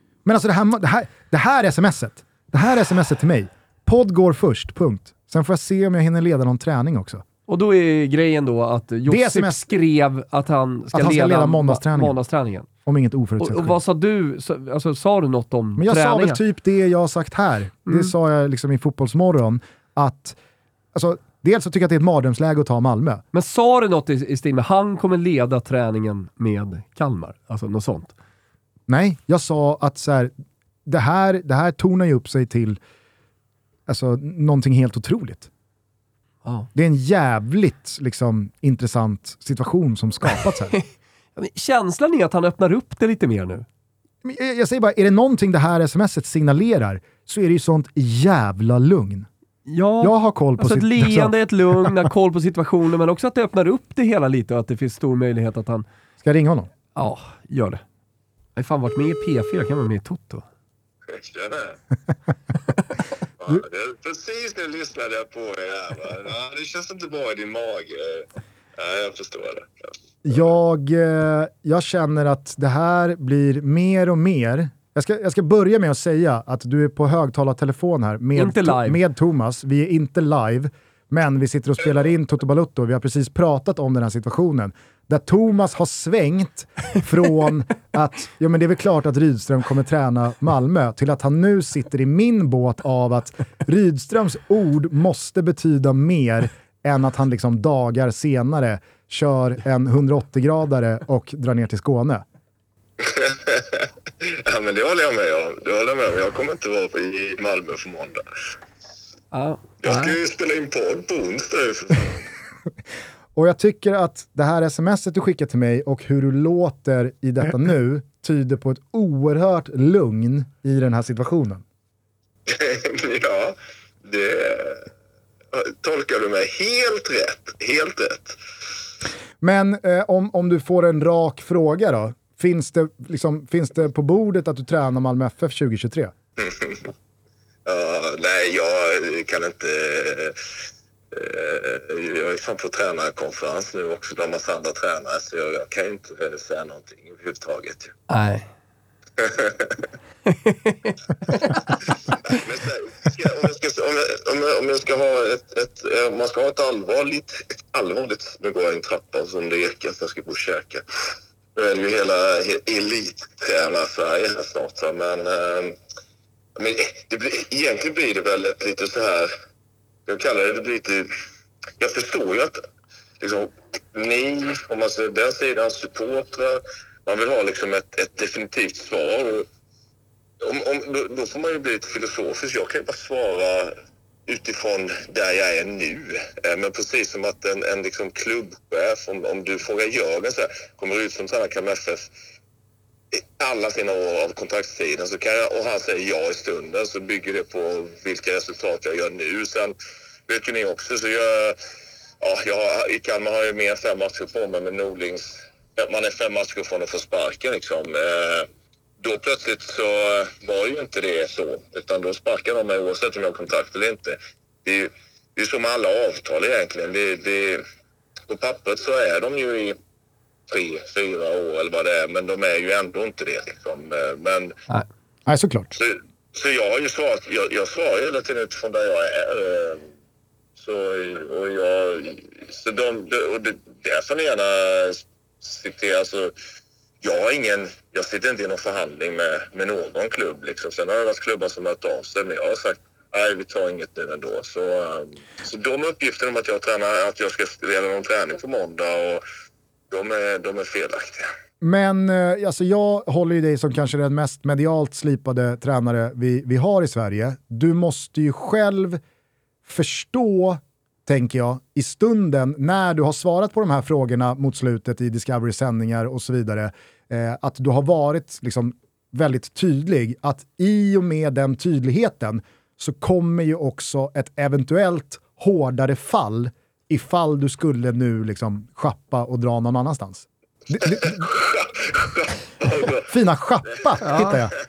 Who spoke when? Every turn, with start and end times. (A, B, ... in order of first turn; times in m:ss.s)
0:00.2-0:07.2 A
0:07.5-0:12.7 B
0:09.1-0:09.6 A
0:10.9-0:12.2 A
0:12.9-0:13.8 A
0:13.4-0:16.4 B
0:15.8-0:20.4 A
0:17.9-0:18.1 B
0:20.9-0:23.2 A
0:23.3-0:28.1 B
0:28.9-0:30.3 A
0:30.9-0:32.8 A
0:33.9-0:35.5 A
0:36.8-0:40.7 A
0:40.5-0:43.7 B
0:44.2-0:49.3 A
0:49.7-0:55.8 B
0:50.0-0:52.1 A
0:56.2-0:56.7 A
0:57.0-0:57.8 B
0:58.6-1:00.4 B
1:01.1-1:01.8 C
1:03.4-1:08.3 C
1:08.8-1:09.9 C
1:10.2-1:42.2 A
1:18.4-1:19.0 B
1:43.0-1:48.2 C
1:49.3-1:50.2 B
1:49.8-1:52.2 C
1:53.4-2:01.6 A
2:02.5-2:04.9 C
2:05.5-2:08.4 C
2:09.4-2:16.1 A
2:16.4-2:16.9 C
2:17.7-2:20.4 C
2:21.1-2:27.9 C
2:28.1-2:28.5 B
2:29.2-2:29.8 C
2:30.3-2:31.6 B
2:32.2-2:40.8 C
2:41.6-2:45.8 C
2:46.6-2:49.3 C
2:50.1-2:51.1 C
2:51.8-2:52.6 C
2:53.2-2:59.5 C
3:00.4-3:03.8 C
3:04.3-3:12.1 C
3:13.1-3:19.8 C
3:20.3-3:21.6 C
3:22.2-3:28.5 C
3:29.0-3:37.6 C
3:38.3-3:39.8 C
3:40.5-3:44.6 C
3:45.3-3:45.8 A
3:45.8-3:49.9 C
3:50.6-3:56.3 C
3:57.0-4:09.2 C
4:09.9-4:11.2 C
4:11.6-4:19.0 A
4:19.7-4:41.3 A
4:40.9-4:43.1 C
4:43.0-4:44.6 A
4:43.7-4:44.4 C
4:44.0-4:44.4 B